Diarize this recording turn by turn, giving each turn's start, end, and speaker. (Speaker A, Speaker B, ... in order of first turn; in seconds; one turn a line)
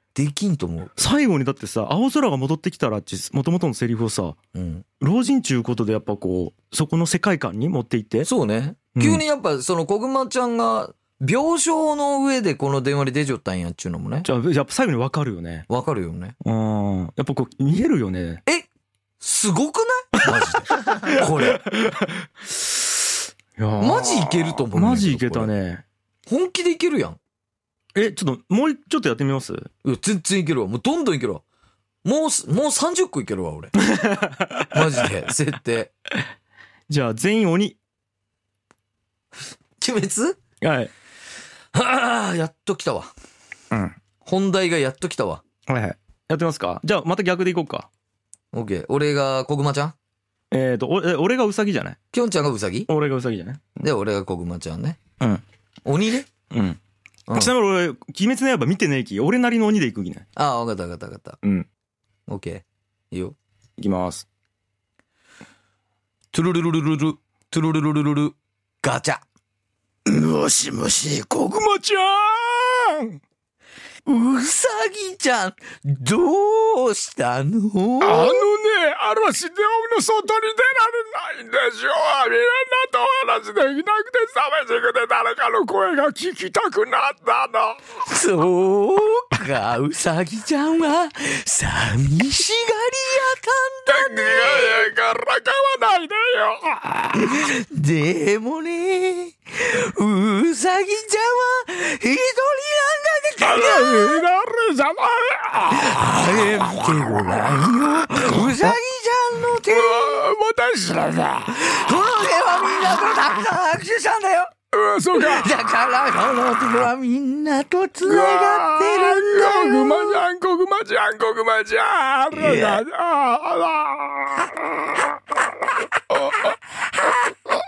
Speaker A: 0.1-1.0
Speaker B: 1.0-4.4
Speaker A: 4.5-4.8
Speaker B: 5.0-8.3
Speaker A: 8.2-14.3
Speaker B: 8.9-9.2
Speaker B: 14.2-15.7
Speaker A: 15.7-16.4
Speaker B: 16.4-18.4
Speaker A: 19.2-21.6
Speaker B: 20.9-22.9
Speaker B: 23.6-25.8
Speaker A: 23.8-25.5
Speaker A: 26.3-27.2
Speaker B: 27.9-29.7
Speaker A: 29.8-31.4
Speaker A: 32.0-33.7
Speaker B: 33.8-34.8
Speaker A: 34.7-35.9
Speaker B: 36.9-37.8
Speaker A: 39.8-40.4
Speaker B: 40.6-40.9
Speaker A: 41.7-43.1
Speaker B: 43.7-44.0
Speaker A: 44.2-45.4
Speaker B: 45.7-47.9
Speaker A: 48.5-49.9
Speaker B: 50.5-52.0
Speaker A: 52.1-52.9
Speaker B: 52.9-53.8
Speaker A: 53.8-55.0
Speaker A: 55.8-56.3
Speaker B: 56.5-56.8
Speaker A: 57.3-57.5
Speaker B: 57.3-60.2
Speaker A: 60.4-61.4
Speaker A: 62.3-63.4
Speaker B: 63.8-64.3
Speaker A: 66.3-69.2
Speaker C: 70.0-73.2
Speaker A: 74.0-78.5
Speaker C: 78.0-87.8
Speaker A: 88.0-94.8
Speaker C: 93.9-97.3
Speaker A: 97.1-104.2
Speaker C: 103.4-106.9
Speaker A: 105.7-110.2
Speaker C: 108.4-108.8
Speaker C: 109.7-111.8
Speaker A: 111.5-114.5
Speaker C: 114.7-115.6
Speaker A: 115.1-120.2
Speaker C: 118.0-125.0
Speaker A: 122.3-122.8
Speaker A: 126.9-127.3